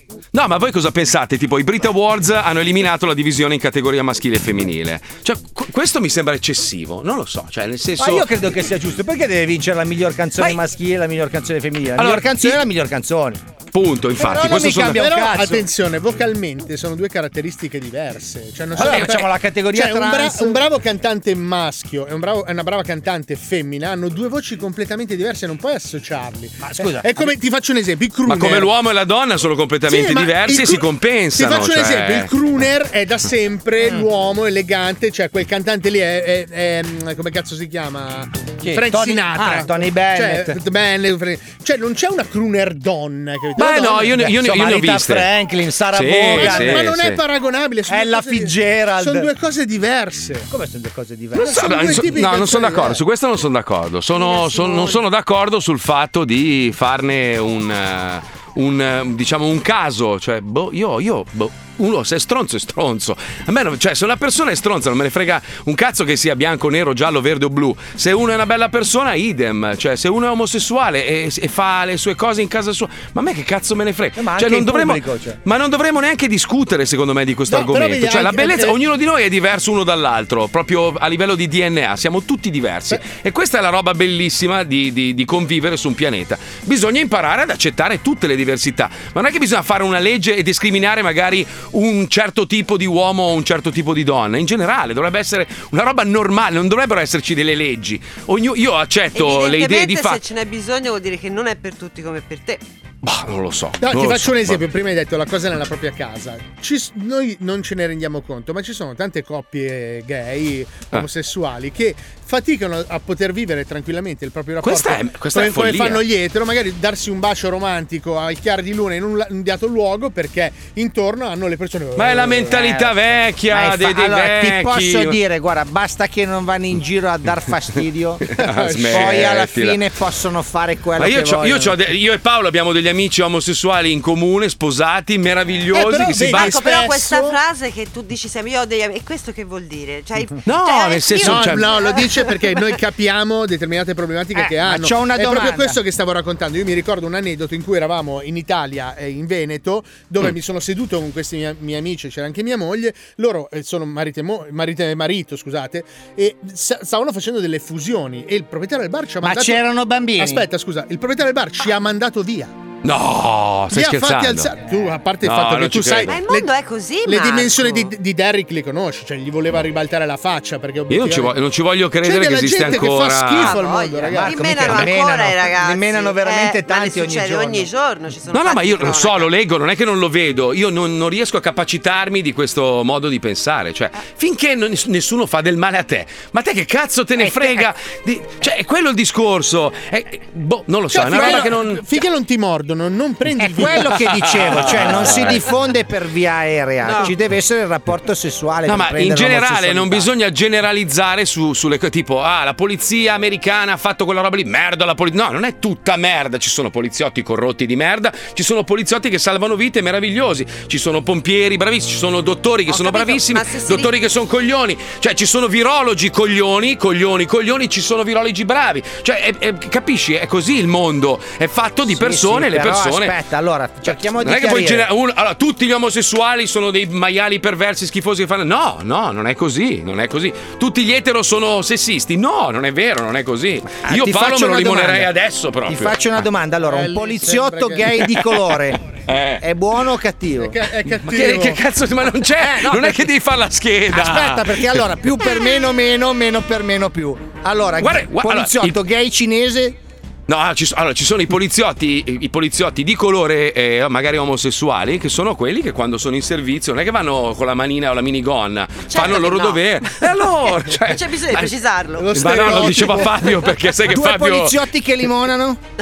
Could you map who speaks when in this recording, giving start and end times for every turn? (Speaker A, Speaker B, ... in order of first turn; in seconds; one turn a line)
Speaker A: 0.3-8.3
Speaker B: 8.0-13.4
Speaker A: 12.0-12.6
Speaker A: 13.7-15.1
Speaker B: 14.2-15.6
Speaker C: 14.9-28.7
Speaker B: 18.8-20.6
Speaker A: 18.9-19.1
Speaker B: 26.6-27.4
Speaker A: 28.3-32.3
Speaker C: 29.9-44.2
Speaker B: 38.6-40.6
Speaker A: 43.6-45.3
Speaker B: 44.1-46.9
Speaker A: 45.9-47.2
Speaker C: 46.4-50.5
Speaker B: 47.9-49.3
Speaker B: 50.5-52.0
Speaker A: 51.4-100.2
Speaker C: 51.4-53.0
Speaker D: 54.2-55.0
Speaker B: 74.2-75.4
Speaker C: 77.5-78.8
Speaker D: 99.1-102.6
Speaker A: 103.0-104.6
Speaker C: 103.8-122.9
Speaker A: 114.6-116.0
Speaker A: 122.0-125.2
Speaker B: 122.5-122.9
Speaker B: 123.5-128.3
Speaker A: 128.3-129.8
Speaker C: 128.4-129.3
Speaker B: 128.9-131.8
Speaker A: 131.0-136.8
Speaker C: 135.7-137.4
Speaker D: 136.3-142.8
Speaker A: 140.5-141.7
Speaker C: 141.2-159.7
Speaker B: 144.3-145.8
Speaker B: 159.2-160.5
Speaker C: 160.2-162.5
Speaker A: 162.8-164.5
Speaker C: 163.7-166.5
Speaker A: 165.2-166.2
Speaker D: 166.1-167.9
Speaker C: 167.1-171.4
Speaker A: 170.9-173.6
Speaker C: 172.0-174.9
Speaker D: 172.6-179.3
Speaker B: 174.1-177.7
Speaker A: 178.3-191.8
Speaker B: 187.2-187.7
Speaker C: 190.9-194.1
Speaker B: 191.1-191.4
Speaker B: 193.4-200.1
Speaker A: 194.1-195.4
Speaker C: 194.6-195.2
Speaker A: 198.7-223.2
Speaker D: 212.7-213.9
Speaker B: 221.9-224.9
Speaker A: 224.2-236.0
Speaker B: 233.8-235.1
Speaker B: 235.7-238.8
Speaker C: 236.7-237.9
Speaker A: 239.1-239.4
Speaker B: 239.4-240.6
Speaker C: 240.4-241.6
Speaker A: 241.1-244.8
Speaker B: 242.4-243.1
Speaker B: 243.9-249.8
Speaker A: 247.8-248.8
Speaker A: 250.3-261.6
Speaker D: 258.9-262.5
Speaker C: 262.0-263.5
Speaker A: 262.1-264.6
Speaker B: 263.9-265.6